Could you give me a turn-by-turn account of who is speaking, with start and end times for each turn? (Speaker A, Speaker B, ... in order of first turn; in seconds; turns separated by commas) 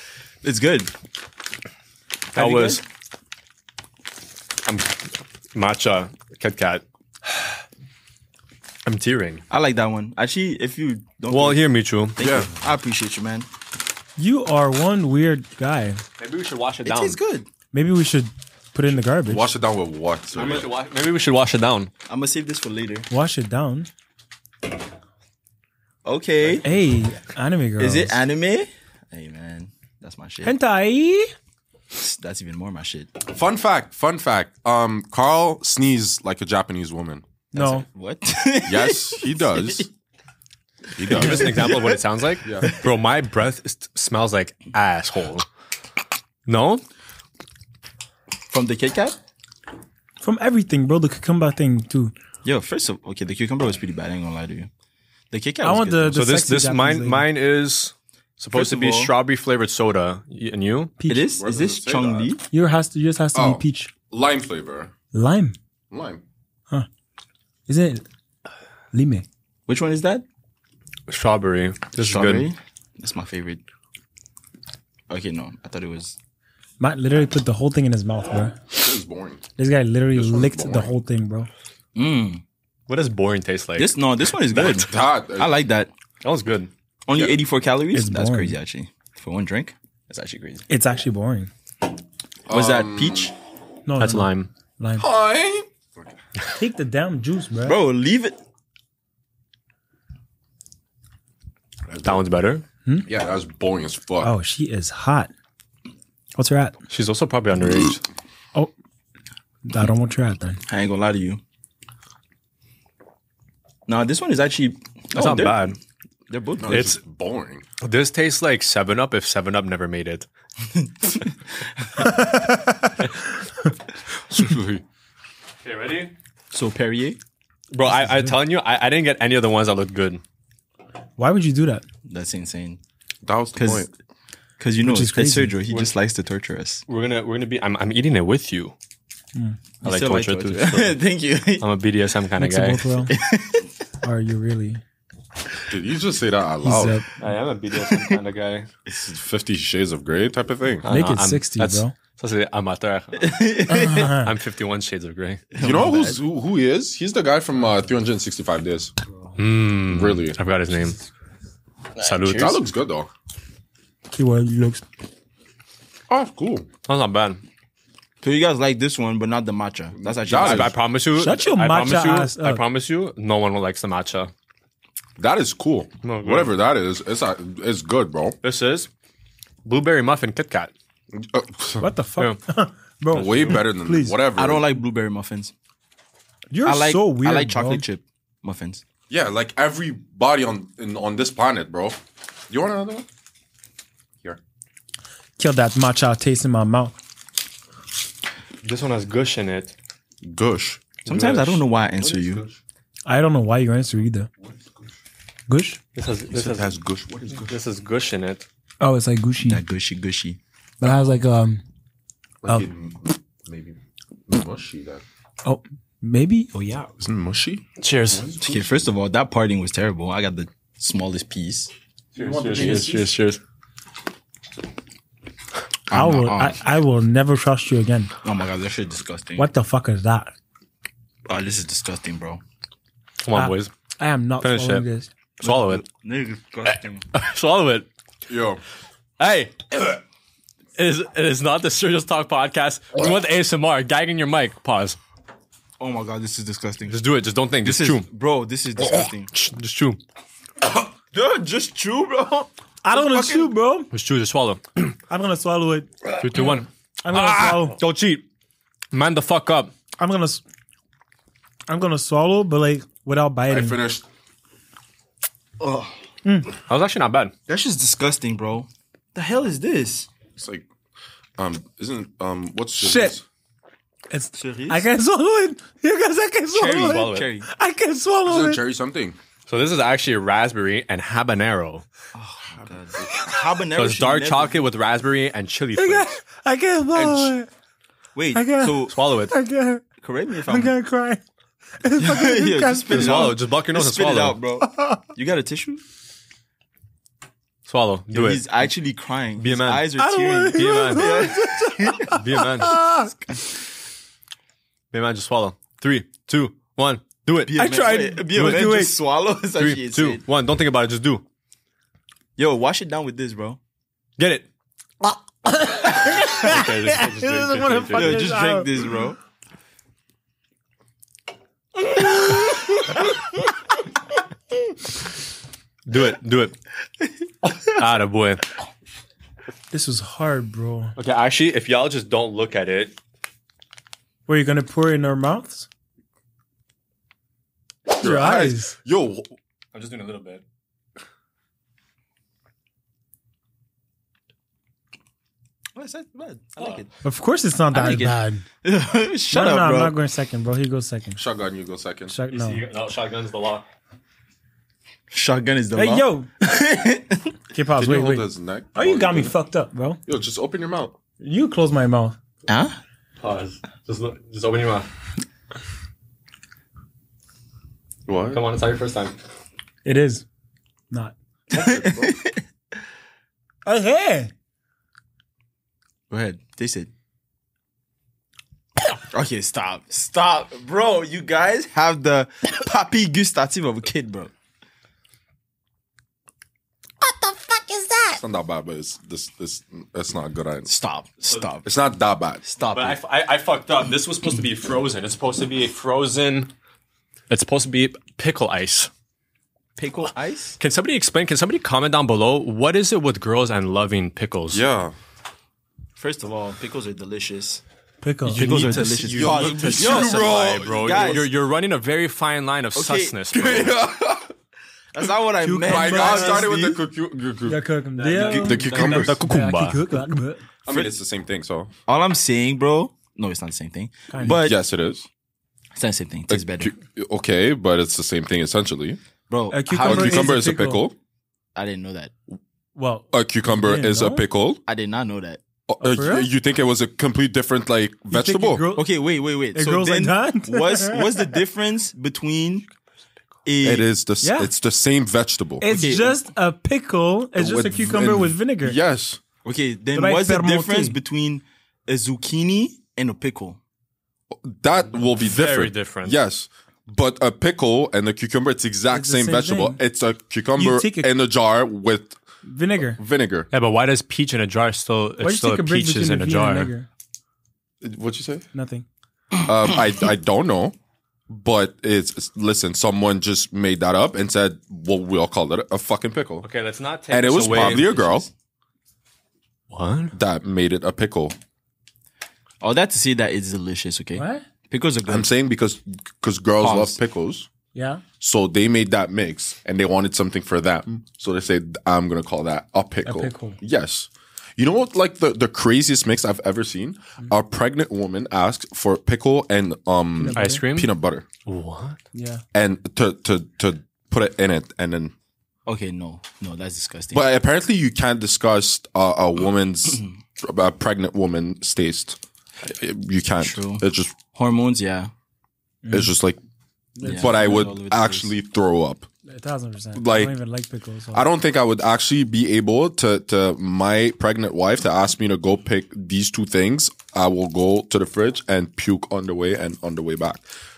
Speaker A: 0.4-0.9, Speaker A: 2.3-2.8, Speaker B: 2.4-2.8, Speaker B: 4.7-5.0, Speaker B: 5.5-6.8, Speaker B: 8.9-9.4, Speaker A: 9.5-13.5, Speaker B: 11.3-12.2, Speaker C: 12.2-12.5, Speaker D: 14.2-16.0, Speaker B: 16.2-17.2, Speaker A: 16.8-17.5, Speaker D: 17.7-19.5, Speaker C: 19.0-20.7, Speaker B: 20.3-21.9, Speaker A: 22.1-23.1, Speaker D: 23.1-23.9, Speaker A: 26.1-26.7, Speaker D: 26.6-28.2, Speaker A: 27.8-30.6, Speaker D: 30.4-31.3, Speaker A: 31.9-33.1, Speaker C: 33.3-37.2, Speaker A: 37.5-39.9, Speaker D: 37.5-37.9, Speaker C: 38.7-39.9, Speaker C: 40.9-41.6, Speaker B: 41.1-45.5, Speaker A: 41.2-41.9, Speaker C: 42.5-42.7, Speaker B: 46.5-46.8, Speaker A: 48.5-49.2, Speaker D: 50.2-52.1, Speaker A: 52.4-54.7, Speaker A: 55.3-56.2, Speaker D: 55.6-57.3, Speaker B: 56.1-60.9, Speaker A: 58.5-59.1, Speaker D: 61.0-61.3, Speaker A: 61.1-62.4, Speaker C: 61.3-62.3, Speaker D: 62.5-63.9, Speaker C: 63.3-64.9, Speaker D: 65.1-65.6, Speaker C: 65.9-66.2, Speaker D: 67.7-68.0, Speaker D: 68.9-69.2, Speaker A: 69.7-70.2, Speaker B: 71.1-72.5, Speaker A: 72.0-73.6, Speaker A: 75.1-76.2, Speaker D: 76.8-78.6, Speaker C: 78.7-79.5, Speaker D: 79.6-81.5, Speaker C: 80.1-80.9, Speaker A: 82.0-82.4, Speaker B: 82.9-84.0, Speaker A: 83.8-85.9, Speaker B: 84.5-84.9, Speaker C: 84.7-85.5, Speaker B: 86.2-86.7, Speaker A: 87.1-90.7, Speaker C: 87.1-87.4, Speaker D: 87.9-88.6, Speaker D: 90.7-91.5, Speaker C: 92.5-93.3, Speaker A: 92.5-93.3, Speaker D: 93.9-95.1, Speaker B: 94.0-94.5, Speaker C: 95.0-96.2, Speaker D: 96.6-97.8, Speaker A: 97.6-98.4, Speaker C: 101.9-102.3, Speaker B: 102.0-102.6, Speaker C: 103.1-104.3, Speaker D: 104.2-105.3, Speaker D: 106.4-106.8, Speaker B: 106.9-108.0, Speaker D: 109.7-110.6, Speaker A: 110.7-111.4, Speaker A: 113.9-115.6, Speaker B: 115.2-115.8, Speaker A: 116.3-116.9, Speaker C: 116.6-117.6, Speaker B: 116.7-117.0, Speaker B: 117.8-120.3, Speaker A: 120.7-121.3, Speaker D: 122.0-122.9, Speaker C: 124.3-124.8, Speaker B: 125.6-126.1, Speaker A: 126.5-127.2, Speaker B: 127.7-130.2, Speaker D: 127.8-128.4, Speaker D: 131.2-131.8, Speaker A: 132.1-132.8, Speaker C: 133.2-133.9, Speaker A: 133.6-133.9, Speaker A: 134.6-136.8, Speaker D: 134.8-135.6, Speaker B: 136.9-138.7, Speaker B: 139.8-141.0, Speaker A: 139.8-141.7, Speaker B: 141.6-142.9, Speaker D: 142.4-143.1, Speaker A: 143.1-143.7, Speaker D: 144.0-144.8, Speaker C: 145.7-147.0, Speaker D: 146.6-147.1, Speaker B: 147.2-148.7, Speaker C: 148.9-150.9, Speaker B: 150.8-155.5, Speaker D: 150.9-151.9, Speaker A: 153.2-154.1, Speaker D: 153.7-154.3, Speaker A: 155.5-156.2, Speaker C: 155.6-158.9, Speaker B: 159.4-161.0, Speaker C: 159.9-160.4, Speaker A: 162.0-162.2, Speaker B: 162.0-162.6, Speaker C: 162.2-163.1, Speaker D: 164.1-164.8, Speaker C: 166.1-166.7, Speaker B: 166.9-167.4, Speaker A: 168.2-170.7, Speaker C: 170.0-170.8, Speaker B: 170.3-174.3, Speaker D: 171.2-172.6, Speaker C: 175.2-178.4, Speaker B: 176.0-176.6, Speaker B: 178.4-178.9, Speaker B: 179.7-180.7, Speaker C: 181.1-181.9, Speaker D: 181.8-184.2, Speaker C: 183.1-184.6, Speaker B: 183.2-183.6, Speaker A: 184.4-185.5, Speaker D: 186.5-187.8, Speaker A: 186.6-188.8, Speaker C: 189.1-193.1, Speaker D: 195.4-196.9, Speaker B: 198.6-199.7, Speaker C: 200.2-200.9, Speaker B: 201.1-201.6, Speaker A: 201.1-202.4, Speaker C: 202.0-202.6, Speaker D: 203.1-204.3, Speaker D: 205.5-205.8, Speaker B: 205.9-206.8, Speaker C: 206.3-207.5, Speaker B: 207.4-208.5, Speaker D: 208.8-209.6, Speaker A: 209.4-210.4, Speaker D: 210.8-211.6, Speaker C: 212.4-213.8, Speaker C: 214.3-215.0, Speaker D: 215.4-216.9, Speaker C: 217.0-218.8, Speaker B: 217.8-218.3, Speaker A: 218.4-221.7, Speaker B: 222.2-223.4, Speaker D: 222.2-223.1, Speaker A: 225.9-226.6, Speaker D: 225.9-228.1, Speaker A: 228.2-229.5, Speaker D: 229.4-230.3, Speaker A: 231.3-232.4, Speaker B: 233.2-233.7, Speaker D: 233.3-235.1, Speaker B: 234.4-234.8, Speaker B: 235.4-235.8, Speaker A: 235.4-237.0, Speaker B: 237.1-237.9, Speaker C: 238.3-238.6, Speaker B: 239.2-240.0, Speaker B: 240.8-245.0, Speaker A: 245.8-247.0, Speaker B: 246.9-248.1, Speaker A: 247.6-249.3, Speaker B: 248.8-250.0, Speaker A: 251.1-253.5, Speaker D: 252.8-253.9, Speaker B: 253.9-255.0, Speaker D: 255.1-256.5, Speaker B: 256.2-258.3, Speaker D: 257.0-257.8, Speaker B: 258.9-259.7, Speaker D: 260.0-260.4, Speaker D: 261.7-263.8, Speaker C: 263.5-264.1, Speaker A: 265.6-265.9, Speaker D: 266.2-266.5, Speaker B: 266.7-267.3, Speaker A: 267.5-270.1, Speaker C: 270.4-270.7, Speaker C: 271.4-273.2, Speaker D: 272.8-273.2, Speaker D: 274.1-278.6, Speaker A: 274.4-274.9, Speaker A: 276.5-277.5, Speaker B: 276.7-277.3, Speaker C: 278.3-279.2, Speaker B: 279.5-281.9, Speaker A: 282.1-284.7, Speaker B: 283.8-286.1, Speaker D: 285.8-287.5, Speaker A: 288.1-288.9, Speaker D: 288.3-289.8, Speaker B: 288.9-289.3, Speaker A: 290.0-290.8, Speaker D: 290.5-291.2, Speaker D: 291.8-293.3, Speaker A: 292.0-295.8, Speaker B: 292.9-294.4, Speaker D: 294.6-295.0, Speaker B: 297.7-298.5, Speaker A: 298.1-302.2, Speaker B: 299.4-299.9, Speaker D: 300.0-303.1, Speaker B: 300.5-301.3, Speaker B: 302.1-302.8, Speaker B: 304.9-307.6, Speaker A: 307.5-310.2, Speaker D: 307.5-308.9, Speaker B: 308.4-308.7, Speaker B: 309.6-311.2, Speaker A: 312.4-313.6, Speaker B: 314.2-314.5, Speaker D: 315.5-319.0, Speaker B: 315.9-318.3, Speaker A: 317.9-319.2, Speaker B: 325.9-326.6, Speaker B: 327.6-328.5, Speaker D: 329.7-330.9, Speaker B: 331.0-333.0, Speaker D: 334.3-335.7, Speaker D: 337.9-338.7, Speaker C: 338.0-339.3, Speaker B: 339.7-340.4, Speaker A: 345.8-346.9, Speaker D: 347.0-348.4, Speaker A: 347.7-350.0, Speaker D: 349.3-351.2, Speaker C: 351.2-352.1, Speaker D: 352.1-352.6, Speaker B: 352.3-353.7, Speaker A: 355.1-357.3, Speaker D: 355.8-356.3, Speaker D: 357.5-360.0, Speaker C: 357.8-359.4, Speaker C: 360.1-361.0, Speaker D: 361.2-362.2, Speaker A: 362.5-362.8, Speaker B: 363.2-364.9, Speaker C: 368.1-368.4, Speaker B: 368.3-369.1, Speaker D: 369.9-370.2, Speaker C: 371.5-372.1, Speaker A: 371.5-372.4, Speaker D: 373.6-374.3, Speaker A: 376.1-376.9, Speaker A: 379.1-384.3, Speaker C: 388.1-390.7, Speaker A: 390.7-391.7, Speaker C: 391.6-392.4, Speaker A: 392.4-393.0, Speaker B: 392.7-396.5, Speaker B: 397.3-398.9, Speaker A: 399.8-400.6, Speaker B: 400.6-404.6, Speaker C: 404.5-404.9, Speaker A: 406.0-407.6, Speaker D: 408.0-408.7, Speaker A: 408.3-411.3, Speaker B: 408.3-413.7, Speaker C: 409.1-411.1, Speaker A: 412.8-413.2, Speaker C: 413.3-414.3, Speaker A: 414.9-416.8, Speaker D: 415.4-416.4, Speaker C: 415.6-417.6, Speaker D: 417.5-420.4, Speaker B: 418.0-419.8, Speaker C: 418.2-419.2, Speaker C: 420.6-421.7, Speaker A: 421.9-424.6, Speaker D: 424.1-424.4, Speaker C: 424.2-425.1, Speaker A: 425.8-426.7, Speaker C: 426.3-429.0, Speaker A: 429.3-430.3, Speaker D: 429.5-430.9, Speaker C: 429.8-430.9, Speaker A: 431.6-432.1, Speaker D: 432.8-434.2, Speaker C: 433.1-434.6, Speaker A: 434.7-435.4, Speaker C: 435.7-438.7, Speaker D: 435.8-436.3, Speaker D: 438.1-438.9, Speaker A: 438.8-442.7, Speaker D: 439.5-441.4, Speaker A: 443.4-443.9, Speaker C: 443.6-445.7, Speaker D: 444.2-444.5, Speaker D: 445.6-448.8, Speaker A: 445.7-446.2, Speaker C: 447.4-449.2, Speaker A: 449.4-453.6, Speaker D: 449.9-451.0, Speaker C: 454.3-462.2, Speaker B: 455.2-456.2, Speaker D: 458.9-459.8, Speaker D: 460.6-461.1, Speaker D: 462.5-463.0, Speaker C: 462.9-463.5, Speaker B: 463.5-466.7, Speaker D: 465.2-466.9, Speaker C: 467.8-468.5, Speaker D: 468.5-468.9, Speaker C: 469.4-470.8, Speaker C: 471.3-476.5, Speaker B: 476.4-478.1, Speaker C: 477.1-478.3, Speaker A: 477.4-478.3, Speaker B: 479.7-480.1, Speaker C: 480.1-481.4, Speaker A: 482.6-485.3, Speaker D: 484.2-484.4, Speaker C: 485.1-487.5, Speaker A: 486.6-487.0, Speaker D: 487.7-488.0, Speaker C: 488.2-501.3, Speaker D: 493.1-493.6, Speaker D: 500.2-500.6, Speaker B: 500.4-500.9, Speaker B: 501.5-502.0, Speaker D: 502.1-502.4, Speaker C: 502.5-505.1, Speaker A: 505.7-507.2, Speaker C: 507.1-514.2, Speaker A: 513.4-515.1, Speaker D: 515.8-516.1, Speaker C: 515.9-516.4, Speaker D: 517.0-517.6, Speaker A: 517.0-518.3, Speaker C: 517.0-519.1, Speaker D: 519.3-521.3, Speaker C: 520.0-520.4, Speaker C: 521.1-530.4